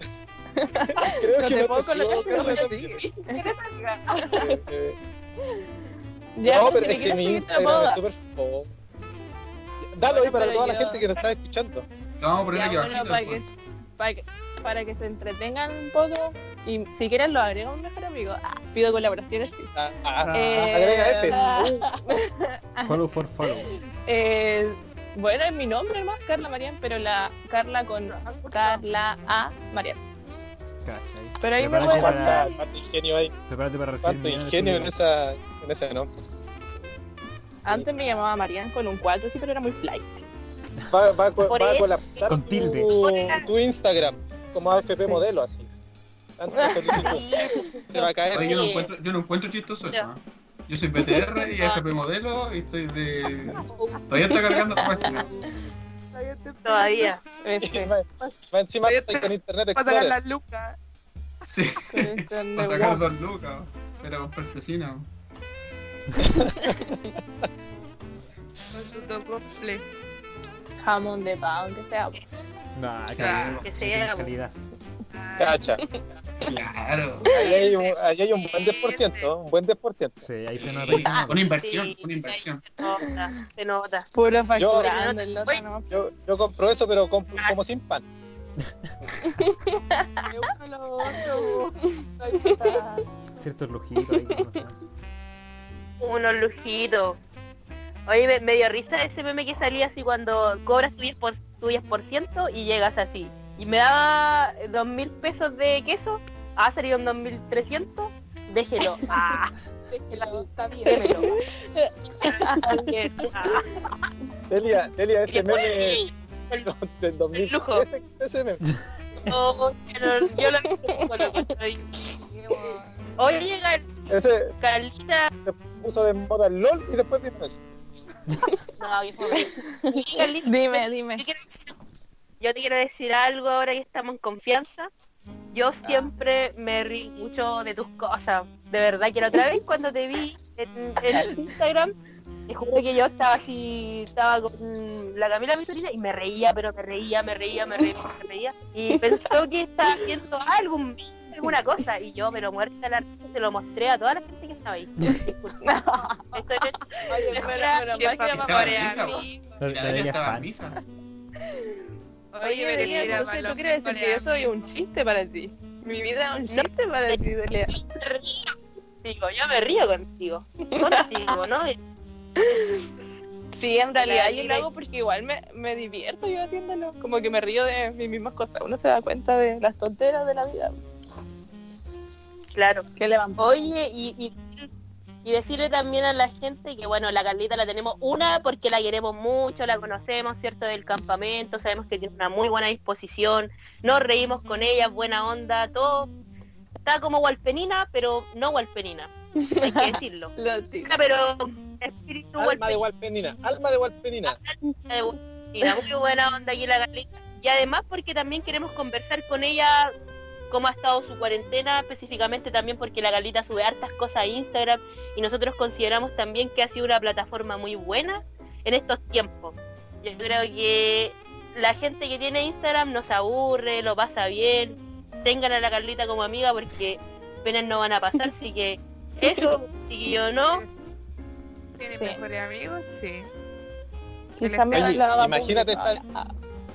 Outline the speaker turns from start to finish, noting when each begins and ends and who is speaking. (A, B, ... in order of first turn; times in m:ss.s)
0:00.6-0:01.2 A
0:01.0-0:02.7 B
0:01.4-0:04.2 C
0:02.1-0:03.7 D
0:02.3-0:02.6 A
0:04.2-0:04.6 A
0:04.3-0:05.0 B
0:05.4-0:05.7 A
0:06.4-0:08.0 A
0:06.4-0:08.7 B
0:09.9-0:11.9 B
0:10.0-0:11.0 A
0:12.2-0:13.4 E
0:12.5-0:19.7 A
0:19.8-0:21.9 B
0:20.2-0:20.8 F
0:20.3-0:23.0 A
0:22.8-0:23.7 F
0:23.6-0:30.0 A
0:28.3-0:28.7 C
0:30.9-0:32.5 F
0:31.4-0:32.5 A
0:31.8-0:33.3 B
0:33.5-0:34.9 F
0:34.0-0:36.1 B
0:37.6-0:40.2 A
0:37.7-0:38.0 B
0:40.9-0:45.7 B
0:41.5-0:42.3 D
0:42.3-0:42.9 F
0:42.9-0:43.5 D
0:45.0-0:45.2 A
0:46.4-0:47.3 B
0:46.6-0:48.1 A
0:47.0-0:47.7 D
0:47.9-0:48.6 B
0:48.3-0:48.9 D
0:48.3-0:55.3 E
0:51.5-0:51.9 D
0:56.1-0:57.2 C
0:56.6-0:57.2 D
0:57.4-0:58.0 A
0:57.6-1:00.2 B
0:58.8-1:00.8 C
1:01.5-1:05.1 E
1:01.9-1:03.1 A
1:06.4-1:07.0 B
1:06.4-1:07.1 A
1:08.7-1:09.8 C
1:10.8-1:12.2 A
1:12.8-1:14.6 F
1:13.1-1:13.6 C
1:13.1-1:13.6 E
1:13.6-1:14.3 D
1:15.1-1:15.6 C
1:15.4-1:15.8 B
1:15.8-1:16.0 A
1:16.4-1:17.3 E
1:17.3-1:20.2 B
1:17.4-1:17.7 D
1:17.4-1:17.8 C
1:18.4-1:19.3 C
1:20.2-1:21.4 F
1:20.6-1:22.7 E
1:21.0-1:21.3 A
1:21.6-1:24.1 D
1:22.9-1:23.4 A
1:24.2-1:25.9 A
1:24.6-1:24.9 B
1:24.7-1:25.6 D
1:25.9-1:28.0 B
1:27.4-1:27.6 D
1:29.1-1:30.3 A
1:30.3-1:33.1 C
1:31.1-1:32.8 A
1:33.4-1:34.8 F
1:34.2-1:34.4 A
1:36.0-1:37.2 D
1:38.1-1:49.5 D
1:49.0-1:49.4 A
1:49.9-1:51.4 C
1:50.1-1:51.3 D
1:50.8-1:53.3 A
1:52.2-1:53.7 D
1:54.5-1:56.0 B
1:55.3-1:56.7 D
1:56.6-1:58.6 B
1:57.3-1:57.9 D
1:59.3-2:01.8 D
2:00.2-2:01.5 A
2:02.2-2:03.0 C
2:03.2-2:03.9 D
2:04.1-2:04.5 B
2:04.6-2:05.3 D
2:05.4-2:07.6 B
2:08.8-2:11.7 D
2:09.3-2:11.3 A
2:12.4-2:14.9 D
2:15.5-2:21.9 D
2:21.1-2:21.5 A
2:22.5-2:35.6 D
2:35.6-2:39.3 A
2:36.3-2:37.9 D
2:37.1-2:39.4 C
2:38.3-2:40.8 E
2:39.6-2:40.5 F
2:41.4-2:41.8 A
2:42.3-2:44.7 C
2:42.4-2:47.8 A
2:42.7-2:43.3 D
2:46.5-2:47.2 D
2:47.9-2:51.8 D
2:50.7-2:51.4 A
2:52.4-2:52.9 A
2:53.5-3:00.8 A
2:54.0-2:54.7 D
3:02.5-3:02.9 D
3:03.0-3:03.6 A
3:03.4-3:04.7 D
3:05.2-3:16.1 D
3:16.8-3:20.3 D
3:19.4-3:21.0 A
3:20.8-3:22.8 D
3:22.4-3:24.4 B
3:24.3-3:29.9 D
3:30.5-3:50.6 D
3:50.4-3:50.7 C
3:51.8-3:53.3 C
3:52.0-3:52.2 A
3:54.4-3:56.3 A
3:54.4-3:55.0 C
3:54.7-3:56.0 B